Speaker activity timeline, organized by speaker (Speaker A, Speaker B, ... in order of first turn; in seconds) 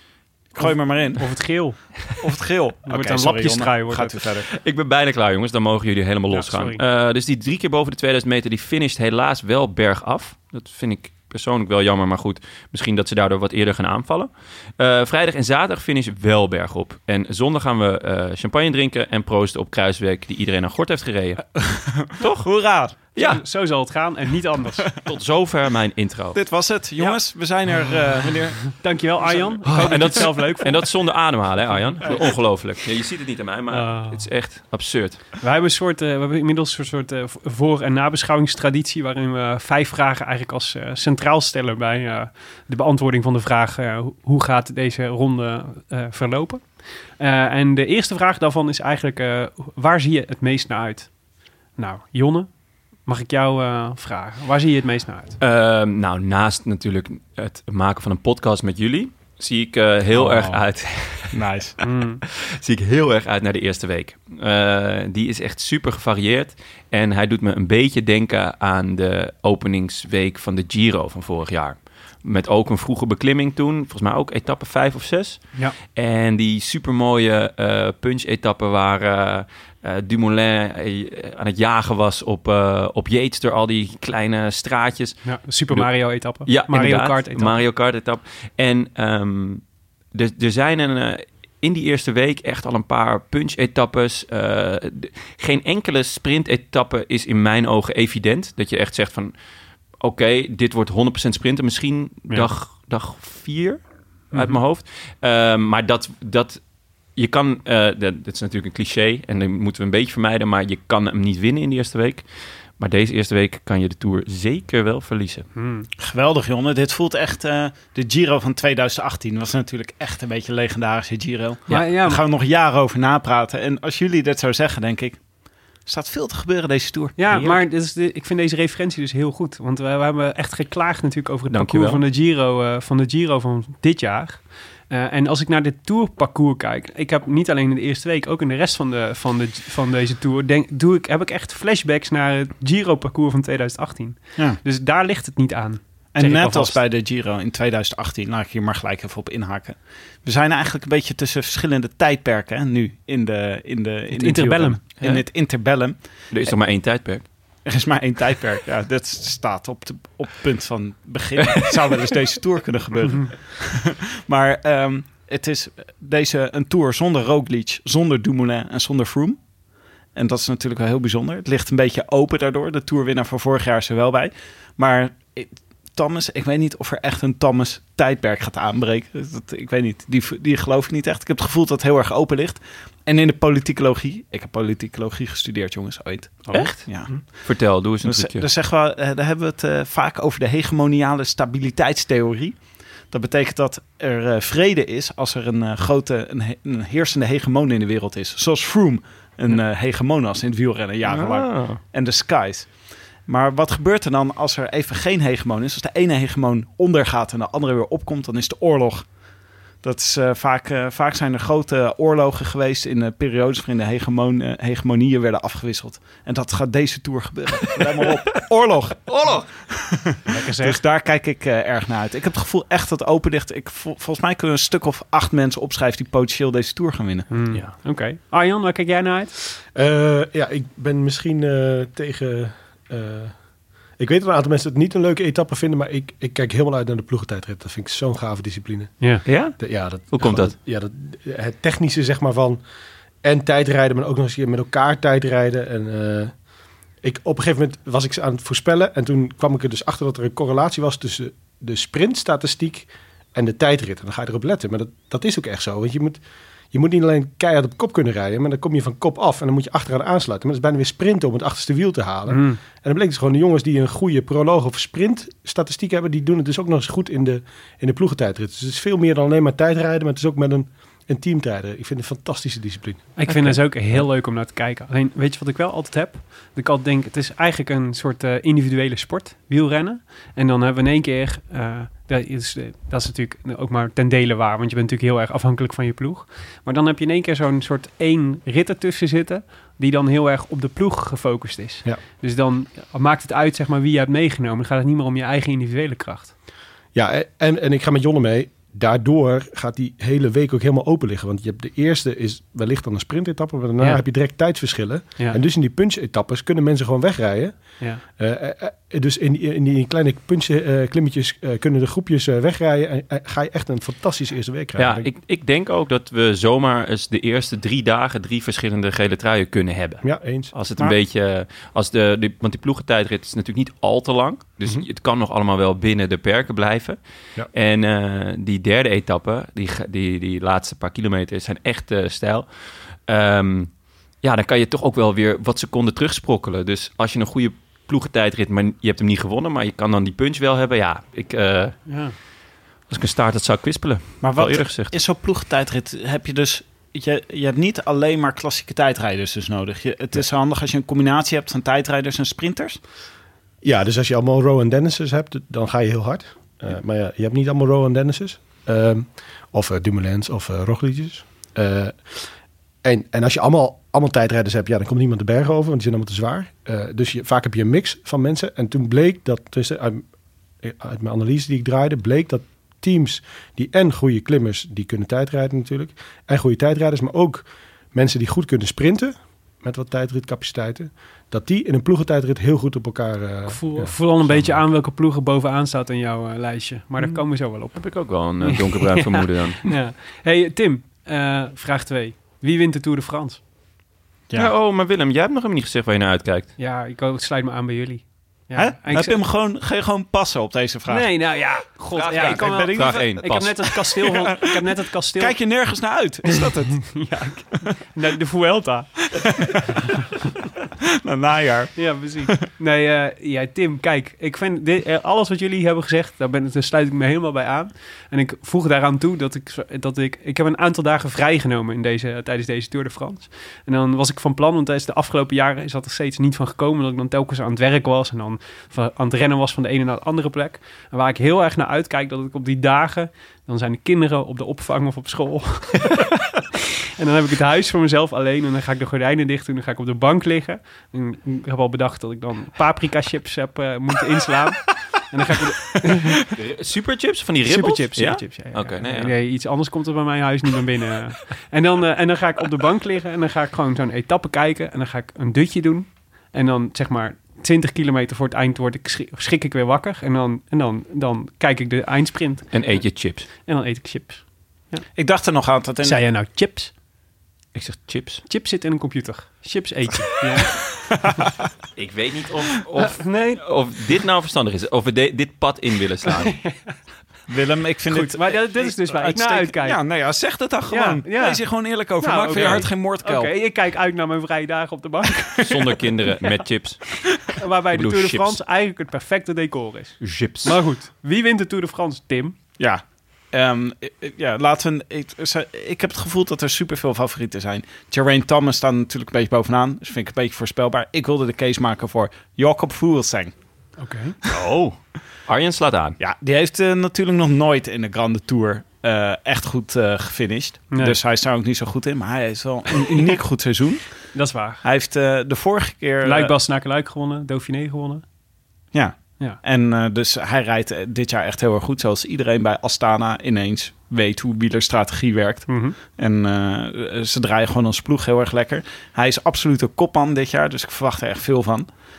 Speaker A: 0.5-1.4, 2.2-4.5, 21.6-23.0, 26.4-30.2, 60.1-60.7, 61.3-61.8, 116.0-125.2, 125.9-127.2, 146.2-156.5, 157.7-169.4, 170.1-209.2, 209.8-227.3, 344.2-352.8, 398.6-401.1, 402.1-404.5, 405.2-407.1, 409.1-409.6, 411.0-412.4, 465.0-466.0, 477.3-483.3, 492.6-503.3, 506.0-516.3, 518.7-531.7
Speaker B: 0.6-2.0, 2.9-4.3, 6.3-6.8, 23.1-24.9, 28.7-30.9, 31.7-32.1, 33.7-34.3, 35.4-51.1, 51.8-52.5, 53.0-55.4, 61.8-62.2, 85.2-87.6, 104.3-104.6, 115.5-115.9, 121.7-122.2, 127.2-146.8, 154.1-154.8, 220.3-220.8, 227.3-229.3, 262.3-262.6, 273.2-296.3, 341.9-342.2, 383.5-393.4, 396.6-399.2, 400.9-405.4, 406.8-409.2, 411.8-436.1, 437.0-446.2, 447.4-464.9, 465.8-466.7, 468.3-470.6, 472.8-473.4, 476.2-476.8, 477.9-479.8, 480.7-486.3, 487.3-492.4, 503.8-504.2, 510.7-511.0, 514.1-514.6, 516.0-518.0, 525.5-525.8
Speaker C: 4.5-22.5, 23.1-23.4, 25.0-26.4, 29.7-35.2, 55.4-61.4, 62.5-99.3, 100.0-106.6, 107.2-112.3, 112.8-115.5, 127.3-127.6, 131.5-132.0, 156.3-157.3, 186.5-188.5, 201.1-201.8, 219.1-219.4, 239.2-240.5, 273.3-273.6, 314.8-327.0, 327.5-341.9, 342.9-344.9, 387.7-389.8, 394.4-396.5, 401.9-403.8, 446.3-449.1, 462.5-463.3, 467.5-468.2, 471.8-476.4, 485.4-487.1, 487.7-488.4, 490.0-490.6, 504.3-506.0
Speaker D: 229.7-233.4, 234.0-242.6, 243.2-246.3, 247.0-256.2, 256.7-273.1, 296.9-307.6, 308.1-315.1, 320.0-320.5, 353.6-362.3, 362.8-370.1, 370.6-384.0